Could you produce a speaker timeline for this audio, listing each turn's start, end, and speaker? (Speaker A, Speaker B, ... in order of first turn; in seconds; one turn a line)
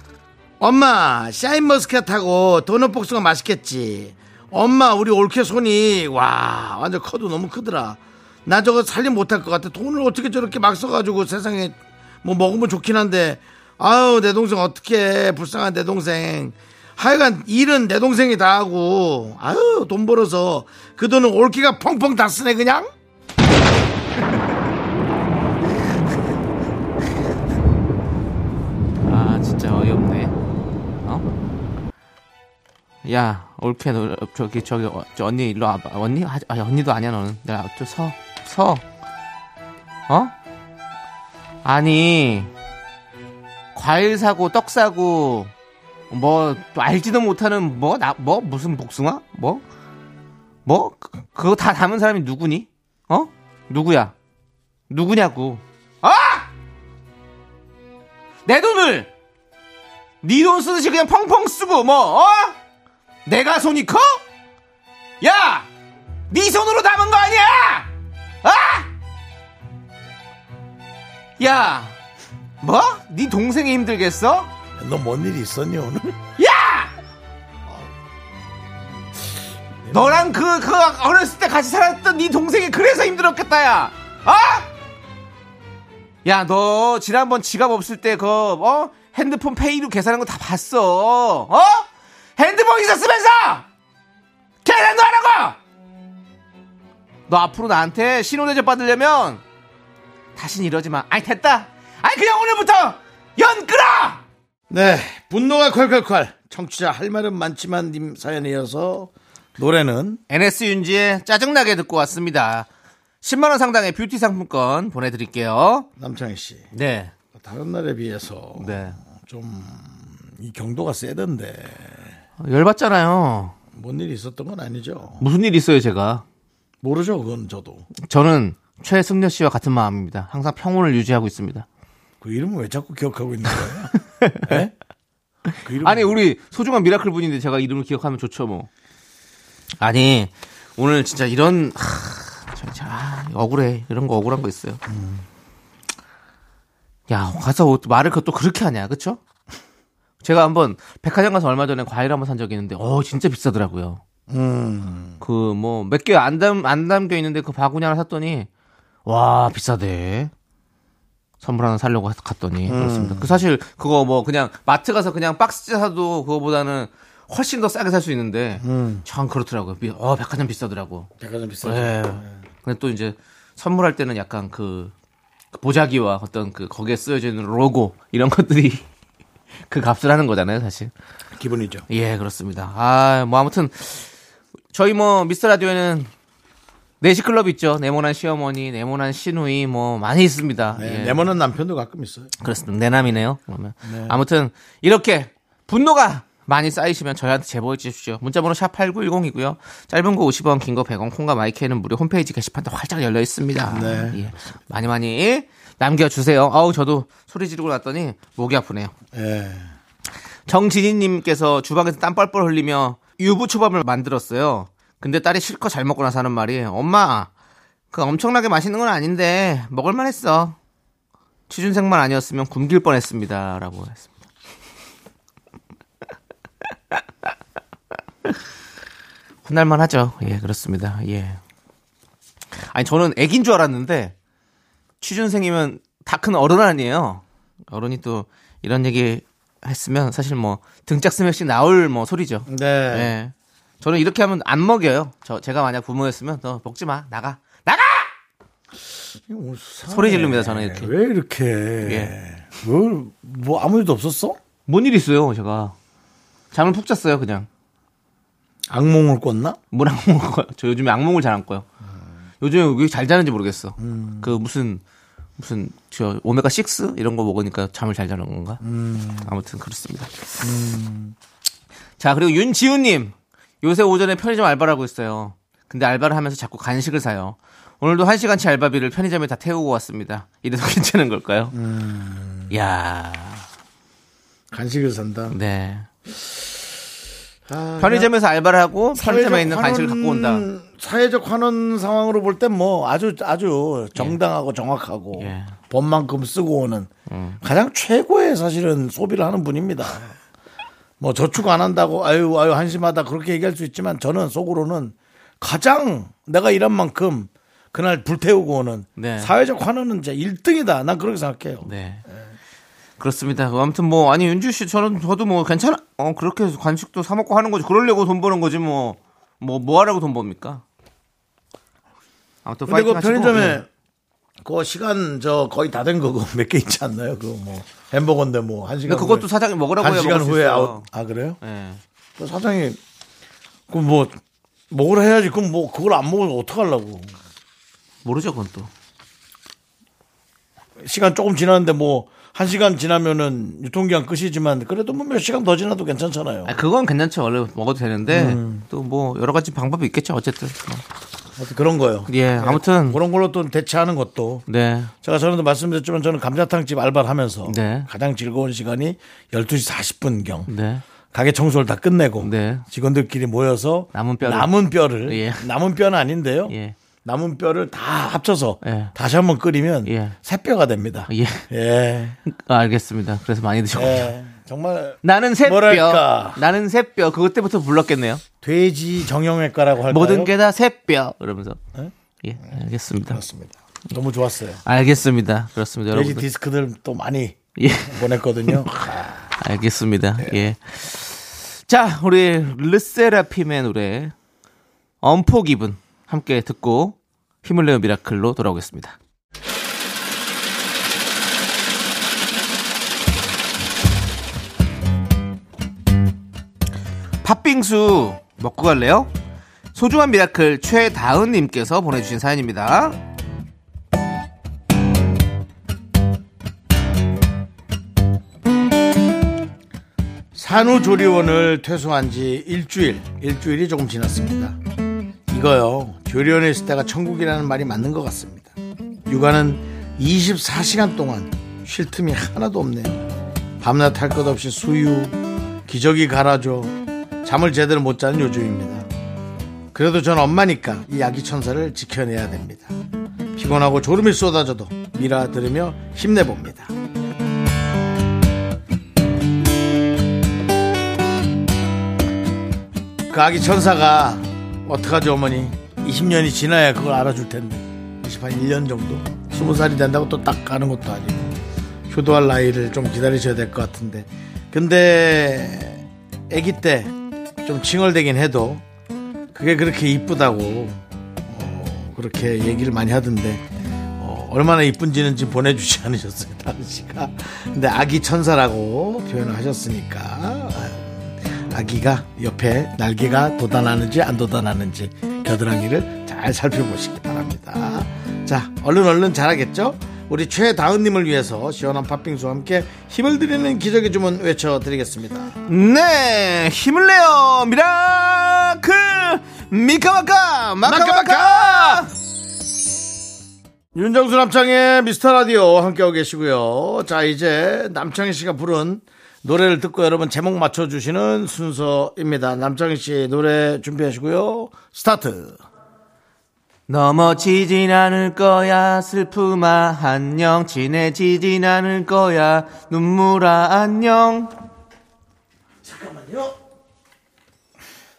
Speaker A: 0.6-22.9
Speaker B: 29.0-30.3
Speaker B: 33.0-38.8
Speaker B: 41.6-42.5
Speaker B: 43.7-45.5
Speaker B: 46.1-49.6
Speaker B: 50.6-54.1
Speaker B: 54.9-56.5
Speaker B: 58.5-59.1
Speaker B: 60.2-62.5
Speaker B: 63.2-64.2
Speaker B: 65.2-65.7
Speaker B: 66.3-67.9
Speaker B: 68.4-68.9
Speaker B: 71.4-72.0
Speaker B: 72.6-74.5
Speaker A: 74.8-76.2
Speaker B: 76.4-76.9
Speaker A: 77.7-77.9
Speaker A: 79.8-80.3
Speaker B: 79.9-84.7
Speaker B: 86.2-93.7
Speaker B: 94.6-95.6
Speaker B: 97.3-99.4
Speaker B: 100.3-104.2
Speaker A: 104.7-110.2
Speaker B: 110.3-112.7
Speaker B: 113.2-115.9
Speaker A: 116.0-116.7
Speaker B: 116.7-117.1
Speaker A: 117.3-122.1
Speaker B: 118.6-119.0
Speaker B: 122.4-123.5
Speaker A: 123.7-125.2
Speaker B: 125.2-126.2
Speaker A: 126.8-127.9
Speaker B: 128.0-131.7
Speaker A: 132.2-134.7
Speaker B: 134.2-134.6
Speaker A: 135.6-136.2
Speaker B: 135.8-138.7
Speaker B: 139.8-144.8
Speaker A: 144.9-145.2
Speaker B: 147.1-149.2
Speaker B: 150.2-154.0
Speaker A: 154.3-155.2
Speaker B: 155.2-158.5
Speaker B: 159.1-160.3
Speaker B: 161.4-171.1
Speaker A: 162.7-163.4
Speaker A: 168.6-169.0
Speaker A: 171.2-172.4
Speaker B: 171.6-174.9
Speaker B: 175.5-178.8
Speaker B: 179.7-180.9
Speaker A: 181.3-181.8
Speaker B: 181.9-184.1
Speaker B: 184.7-186.1
Speaker B: 187.0-191.3
Speaker A: 190.8-192.3
Speaker B: 192.4-208.9
Speaker A: 193.8-194.2
Speaker A: 203.7-204.4
Speaker A: 209.1-209.7
Speaker B: 210.5-217.3
Speaker B: 217.9-220.6
Speaker B: 221.5-224.1
Speaker B: 229.4-231.4
Speaker B: 232.7-234.1
Speaker B: 235.0-248.1
Speaker A: 242.5-243.1
Speaker A: 249.1-254.4
Speaker B: 249.9-250.9
Speaker B: 251.8-252.1
Speaker B: 254.7-255.7
Speaker B: 256.5-257.5
Speaker A: 258.7-259.6
Speaker B: 259.7-261.6
Speaker B: 262.4-264.8
Speaker A: 263.8-264.3
Speaker B: 265.4-268.6
Speaker A: 268.6-269.3
Speaker B: 269.2-270.2
Speaker A: 270.4-271.1
Speaker B: 272.0-281.5
Speaker A: 281.5-282.5
Speaker B: 282.5-283.4
Speaker A: 284.5-285.4
Speaker B: 285.3-285.9
Speaker A: 287.5-288.1
Speaker B: 287.8-290.5
Speaker A: 288.9-296.9
Speaker B: 295.2-295.5
Speaker B: 297.1-297.4
Speaker A: 297.4-300.2
Speaker A: 301.0-311.7
Speaker B: 309.0-309.3
Speaker B: 311.6-312.0
Speaker B: 313.0-320.6
Speaker B: 322.4-323.6
Speaker A: 322.7-323.7
Speaker A: 324.4-331.4
Speaker B: 328.8-330.9
Speaker B: 331.4-331.8
Speaker A: 332.2-332.8
Speaker A: 333.7-334.2
Speaker A: 334.7-337.1
Speaker B: 338.0-338.7
Speaker A: 340.8-346.5
Speaker B: 346.4-350.8
Speaker A: 348.1-348.6
Speaker A: 351.4-354.4
Speaker B: 352.1-353.0
Speaker B: 354.5-354.9
Speaker A: 355.0-360.5
Speaker B: 357.5-357.9
Speaker B: 360.5-360.8
Speaker A: 361.1-372.2
Speaker B: 362.2-362.6
Speaker B: 363.9-365.4
Speaker B: 366.5-366.8
Speaker B: 368.6-368.9
Speaker B: 369.8-370.1
Speaker B: 371.1-371.5
Speaker B: 372.2-374.1
Speaker A: 373.7-376.4
Speaker B: 375.0-378.2
Speaker A: 378.4-380.3
Speaker B: 379.9-381.6
Speaker B: 382.2-383.2
Speaker A: 383.1-384.6
Speaker B: 384.6-386.2
Speaker A: 385.9-389.3
Speaker B: 387.6-388.6
Speaker B: 389.4-394.1
Speaker B: 395.0-398.9
Speaker B: 407.2-409.1
Speaker B: 409.7-413.0
Speaker A: 420.3-424.6
Speaker A: 425.3-428.5
Speaker A: 429.1-433.1
Speaker A: 433.6-438.9
Speaker A: 439.7-442.7
Speaker A: 443.4-446.7
Speaker A: 453.1-461.3
Speaker A: 461.9-468.6
Speaker A: 469.3-495.3
Speaker B: 495.5-501.9
Speaker A: 500.6-501.9
Speaker A: 503.7-515.4
Speaker B: 516.7-524.3
Speaker A: 525.6-526.4